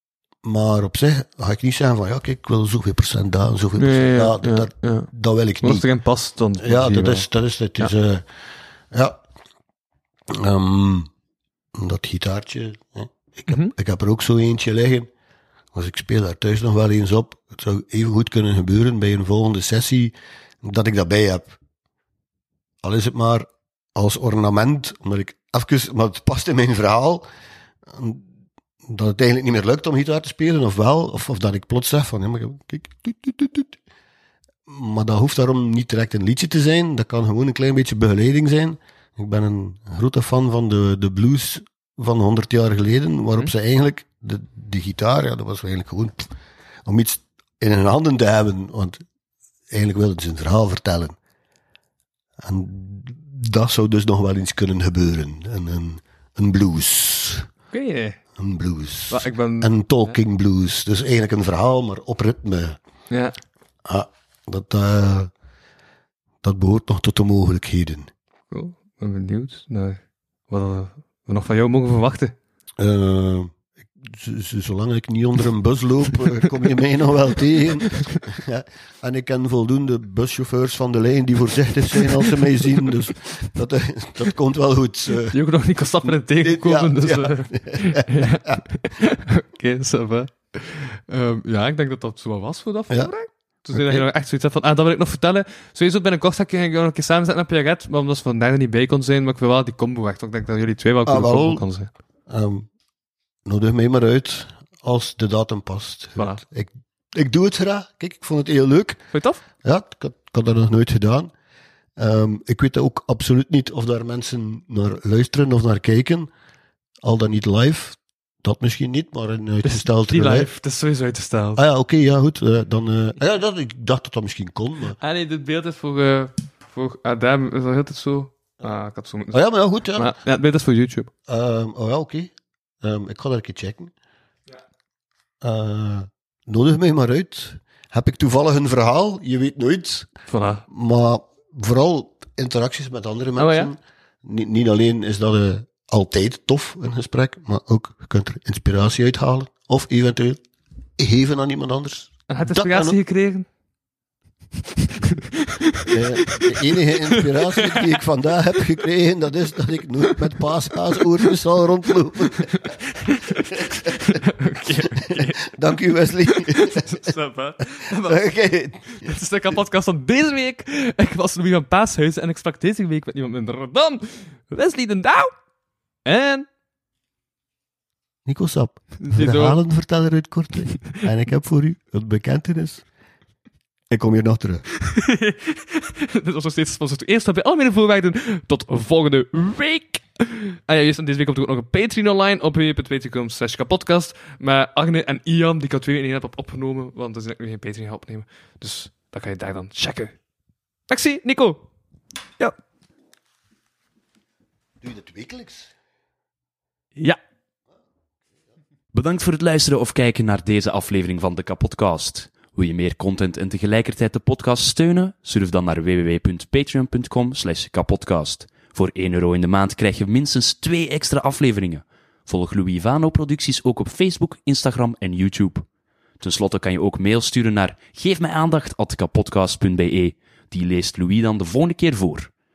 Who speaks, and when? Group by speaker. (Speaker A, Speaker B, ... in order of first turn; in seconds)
Speaker A: 0.4-5.8, 6.6-8.2, 8.9-9.2, 10.3-11.1, 11.7-15.1, 15.7-21.6, 22.8-27.2, 27.9-28.2, 28.8-33.8, 34.7-46.3, 46.8-49.0, 49.7-51.1, 52.4-57.5, 58.4-62.8, 63.9-65.3, 66.4-68.1, 72.8-85.4, 86.0-88.6, 93.7-94.0, 101.0-101.6, 102.3-102.7, 103.5-109.0, 109.6-111.3, 112.0-116.3, 117.0-120.5, 121.5-125.0, 129.3-130.1, 131.3-133.9, 135.4-140.1, 140.7-150.4, 151.0-153.0, 155.9-162.8, 163.3-164.2, 164.8-167.1, 167.8-169.1, 178.2-182.8, 183.9-184.6, 204.8-205.7
Speaker B: 3.8-5.1, 5.6-7.2, 57.7-58.2, 59.1-59.7, 63.1-63.3, 68.5-72.3, 85.3-101.9, 106.2-106.4, 109.1-109.4, 119.6-121.6, 125.0-129.4, 129.9-131.1, 140.3-140.6, 143.4-143.7, 152.3-153.4, 155.0-156.5, 157.1-157.9, 162.5-165.6, 166.2-168.2, 168.9-175.3, 176.0-176.5, 179.0-179.6, 184.8-200.1, 200.9-201.6
Speaker C: 208.9-225.7, 226.2-232.3